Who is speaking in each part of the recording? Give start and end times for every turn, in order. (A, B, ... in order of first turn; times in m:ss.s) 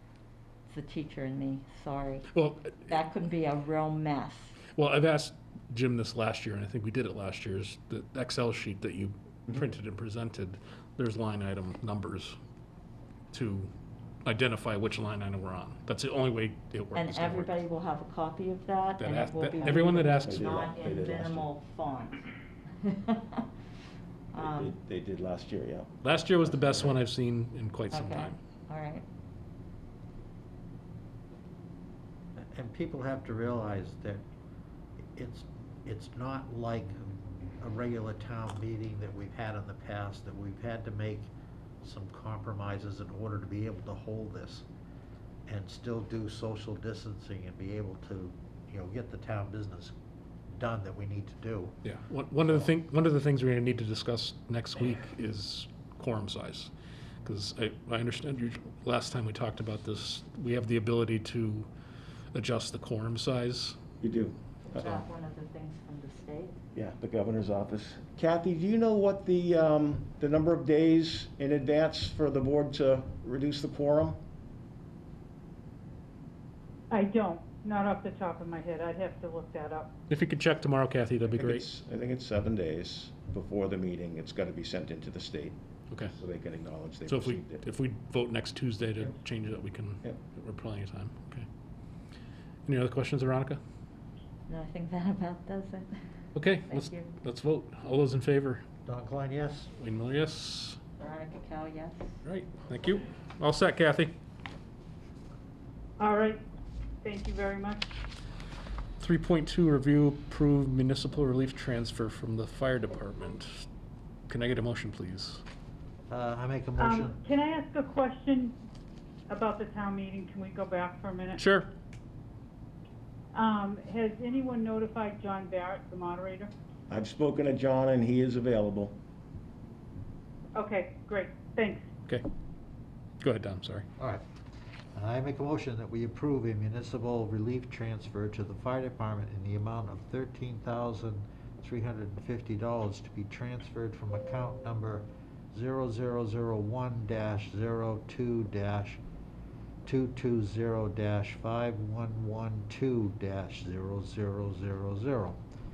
0:00.7-0:02.3 A
0:02.3-0:02.9 B
0:02.8-0:04.6 A
0:04.7-0:12.4 B
0:13.3-0:13.7 B
0:14.2-0:17.6 B
0:16.9-0:22.2 A
0:19.0-0:20.5 B
0:20.2-0:21.5 C
0:22.8-0:23.5 A
0:24.3-0:24.7 A
0:24.3-0:27.0 C
0:26.0-0:28.4 B
0:27.9-0:29.0 A
0:32.4-0:34.2 D
0:35.2-0:41.3 D
0:41.8-0:44.6 D
0:45.5-0:49.9 D
0:50.5-0:51.8 D
0:51.8-0:56.7 B
0:57.2-1:01.7 B
1:02.3-1:03.8 B
1:04.0-1:05.0 C
1:04.7-1:06.6 A
1:06.7-1:14.2 C
1:16.9-1:19.9 E
1:20.1-1:21.6 B
1:21.3-1:27.6 C
1:27.0-1:31.5 B
1:32.6-1:33.6 B
1:34.5-1:36.0 A
1:36.3-1:38.6 B
1:36.6-1:37.1 A
1:38.8-1:39.7 D
1:39.8-1:40.8 B
1:41.0-1:42.2 A
1:42.2-1:44.2 B
1:46.0-1:46.4 E
1:47.0-1:48.0 E
1:49.0-1:53.7 B
1:54.3-1:55.4 B
1:56.1-1:57.2 D
1:56.8-1:58.6 E
1:59.3-2:01.4 E
2:01.4-2:01.7 B
2:03.3-2:06.5 E
2:06.9-2:09.0 C
2:10.5-2:11.8 E
2:13.2-2:13.8 B
2:14.0-2:14.2 D
2:14.9-2:29.0 D
2:29.8-2:35.4 D